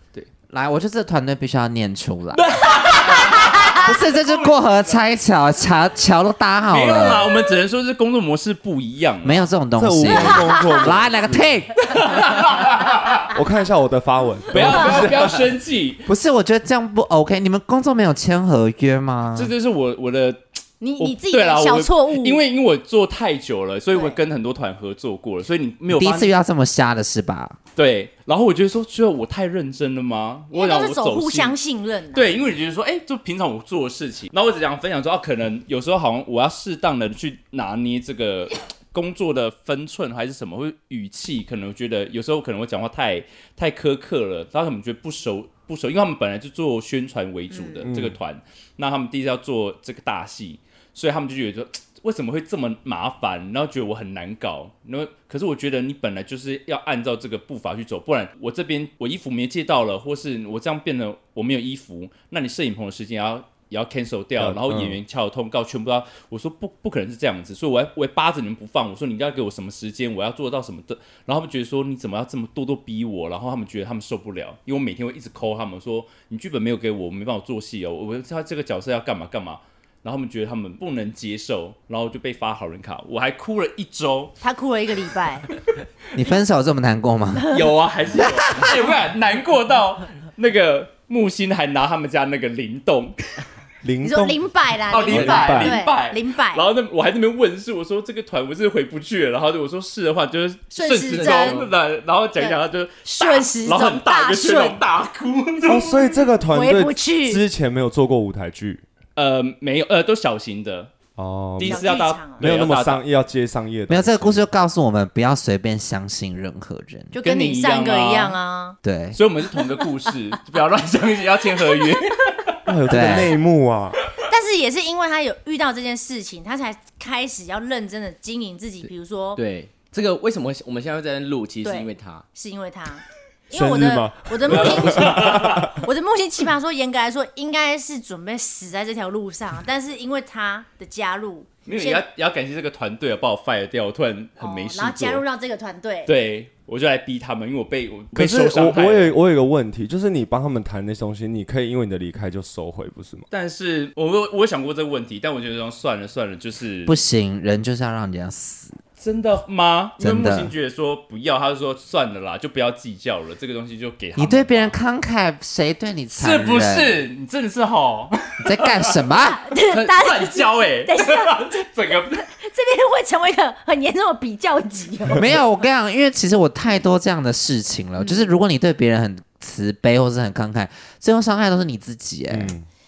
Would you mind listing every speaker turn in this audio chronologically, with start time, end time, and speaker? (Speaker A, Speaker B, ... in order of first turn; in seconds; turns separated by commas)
Speaker A: 0.5-2.6, Speaker B: 2.3-5.0, Speaker C: 2.6-3.8, Speaker A: 3.6-7.3, Speaker B: 6.7-9.4, Speaker A: 9.2-11.7, Speaker D: 9.8-11.6, Speaker C: 10.1-10.8, Speaker B: 11.8-13.3, Speaker D: 13.3-15.5, Speaker B: 14.5-16.0, Speaker A: 16.1-19.5, Speaker B: 19.3-20.4, Speaker C: 20.8-22.4, Speaker B: 21.0-26.3, Speaker C: 23.9-24.2, Speaker A: 25.9-27.6, Speaker B: 27.8-31.6, Speaker C: 30.5-32.4, Speaker B: 32.1-84.3, Speaker C: 47.5-47.9, Speaker D: 47.8-48.2, Speaker D: 64.4-65.0, Speaker C: 84.4-85.5, Speaker A: 86.1-87.5, Speaker B: 87.5-93.4, Speaker A: 88.1-88.8, Speaker D: 93.8-94.4, Speaker C: 94.0-96.7, Speaker B: 94.9-106.2, Speaker D: 95.0-95.8, Speaker C: 100.7-101.6, Speaker E: 101.1-101.7, Speaker C: 102.4-104.8, Speaker D: 105.6-108.8, Speaker C: 106.5-107.4, Speaker B: 109.2-110.9, Speaker D: 111.2-114.4, Speaker B: 111.6-113.0, Speaker C: 111.6-112.5, Speaker A: 113.9-117.1, Speaker C: 117.1-118.8, Speaker B: 117.2-118.4, Speaker A: 118.8-119.2, Speaker B: 119.1-122.6, Speaker C: 119.5-119.8, Speaker C: 121.6-122.0, Speaker D: 122.7-124.0, Speaker A: 122.9-123.3, Speaker C: 124.3-129.4, Speaker E: 129.3-132.2, Speaker C: 131.6-142.0, Speaker D: 133.5-135.8, Speaker B: 134.5-135.7, Speaker B: 141.7-145.2, Speaker C: 144.4-146.1, Speaker B: 146.1-149.2, Speaker D: 148.1-153.2, Speaker B: 153.3-157.0, Speaker A: 156.8-158.8, Speaker B: 159.0-164.8, Speaker A: 160.0-160.5, Speaker A: 164.2-167.0, Speaker B: 166.1-169.0, Speaker A: 168.4-169.4, Speaker C: 169.3-175.3, Speaker B: 169.8-172.2, Speaker A: 175.1-182.5, Speaker C: 178.0-178.4, Speaker D: 182.3-182.7